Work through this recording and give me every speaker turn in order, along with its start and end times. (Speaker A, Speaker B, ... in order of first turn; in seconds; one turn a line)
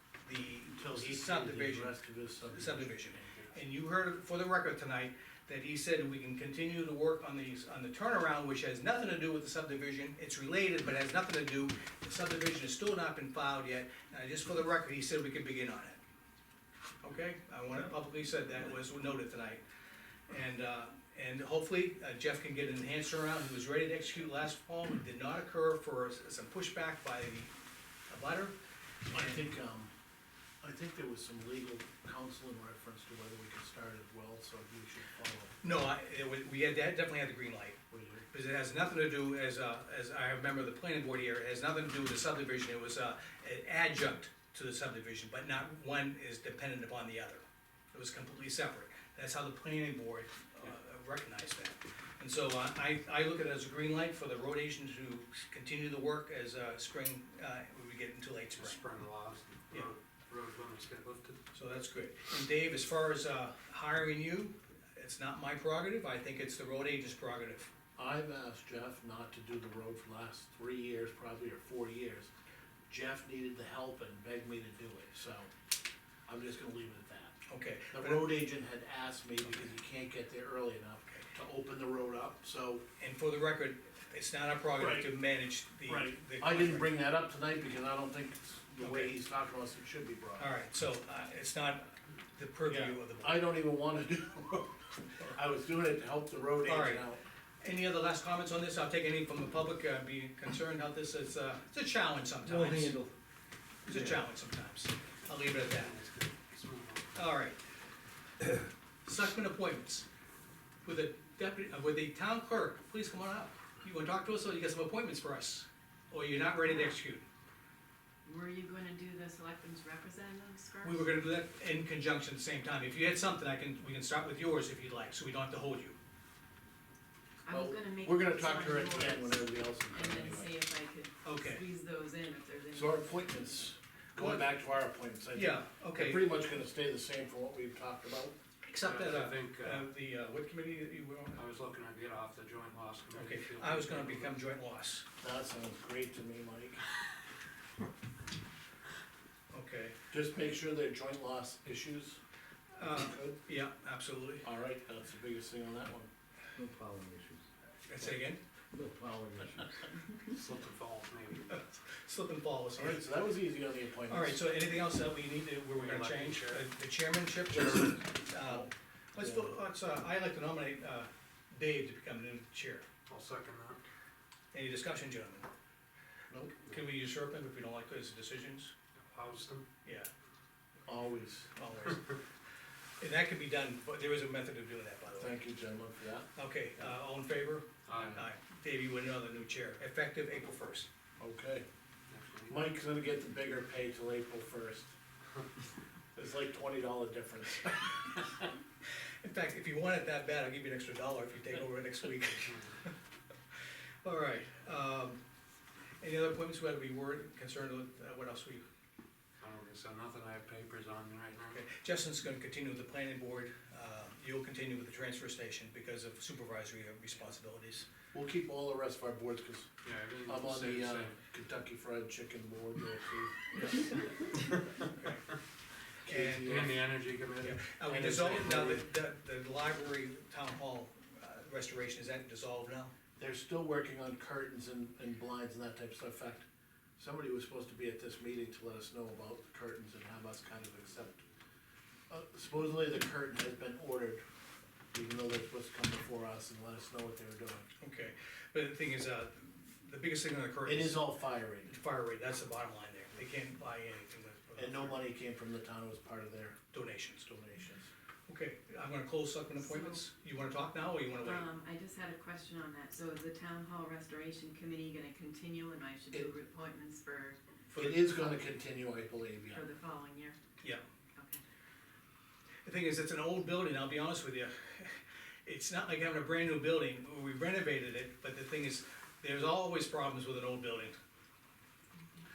Speaker A: 0.2-1.9
Speaker B: 0.8-3.6
Speaker A: 2.5-16.0
Speaker A: 17.0-19.6
Speaker A: 20.3-27.5
Speaker A: 28.1-28.5
Speaker A: 29.1-29.3
Speaker B: 29.1-29.9
Speaker B: 30.6-35.5
Speaker A: 35.6-37.8
Speaker B: 37.9-38.2
Speaker A: 38.3-58.8
Speaker C: 58.6-61.4
Speaker A: 61.5-67.7
Speaker B: 68.0-72.3
Speaker B: 72.9-75.5
Speaker B: 76.3-77.4
Speaker A: 77.5-78.2
Speaker B: 77.9-82.8
Speaker A: 83.0-86.9
Speaker B: 84.8-85.1
Speaker B: 85.9-90.5
Speaker A: 88.8-89.1
Speaker A: 90.4-93.4
Speaker B: 93.2-97.2
Speaker A: 96.6-97.0
Speaker A: 97.6-103.0
Speaker D: 102.4-103.1
Speaker A: 103.8-106.0
Speaker C: 105.5-107.2
Speaker A: 107.1-107.6
Speaker A: 109.0-110.0
Speaker A: 110.8-117.2
Speaker E: 116.6-117.0
Speaker E: 118.2-121.1
Speaker A: 120.8-126.0
Speaker E: 127.4-133.5
Speaker B: 127.5-130.5
Speaker A: 131.2-131.6
Speaker B: 132.7-138.3
Speaker A: 134.2-134.5
Speaker A: 135.3-136.3
Speaker A: 138.6-141.4
Speaker C: 138.8-139.9
Speaker C: 141.3-144.4
Speaker A: 143.1-145.1
Speaker B: 145.2-146.8
Speaker A: 149.5-149.9
Speaker B: 150.1-152.2
Speaker A: 152.8-154.4
Speaker B: 152.8-153.4
Speaker B: 154.4-156.1
Speaker D: 156.6-157.4
Speaker A: 157.9-158.4
Speaker D: 158.7-159.7
Speaker C: 160.2-161.7
Speaker A: 161.5-163.0
Speaker B: 162.8-164.4
Speaker A: 164.1-172.8
Speaker C: 165.7-166.7
Speaker B: 168.4-169.5
Speaker C: 173.1-173.8
Speaker A: 174.5-175.5
Speaker B: 176.3-176.6
Speaker A: 176.7-178.7
Speaker C: 179.0-179.6
Speaker A: 179.8-180.1
Speaker B: 180.8-181.5
Speaker A: 181.5-182.2
Speaker A: 183.0-185.4
Speaker B: 185.2-186.3
Speaker A: 186.3-190.9
Speaker C: 187.8-188.2
Speaker B: 188.0-188.2
Speaker B: 191.2-191.6
Speaker C: 192.1-192.6
Speaker B: 192.5-194.9
Speaker B: 196.1-198.2
Speaker A: 199.2-202.9
Speaker A: 204.0-205.2
Speaker A: 206.0-208.6
Speaker C: 209.4-211.6
Speaker A: 211.4-217.9
Speaker B: 218.1-219.7
Speaker C: 219.8-221.2
Speaker B: 220.2-223.5
Speaker A: 223.5-224.0
Speaker A: 224.9-225.3
Speaker A: 226.1-226.6
Speaker B: 226.1-226.8
Speaker C: 226.4-228.7
Speaker A: 227.4-232.9
Speaker B: 227.9-228.8
Speaker B: 233.2-236.4
Speaker B: 237.0-241.2
Speaker B: 242.1-244.2
Speaker B: 244.9-247.7
Speaker A: 247.8-251.0
Speaker B: 250.6-251.8
Speaker A: 251.7-255.0
Speaker B: 254.6-256.6
Speaker A: 256.7-257.2
Speaker B: 257.2-257.9
Speaker A: 258.3-261.5
Speaker E: 259.6-260.0
Speaker E: 261.2-267.4
Speaker A: 267.7-268.2
Speaker B: 267.8-269.6
Speaker E: 269.5-270.4
Speaker A: 272.6-280.9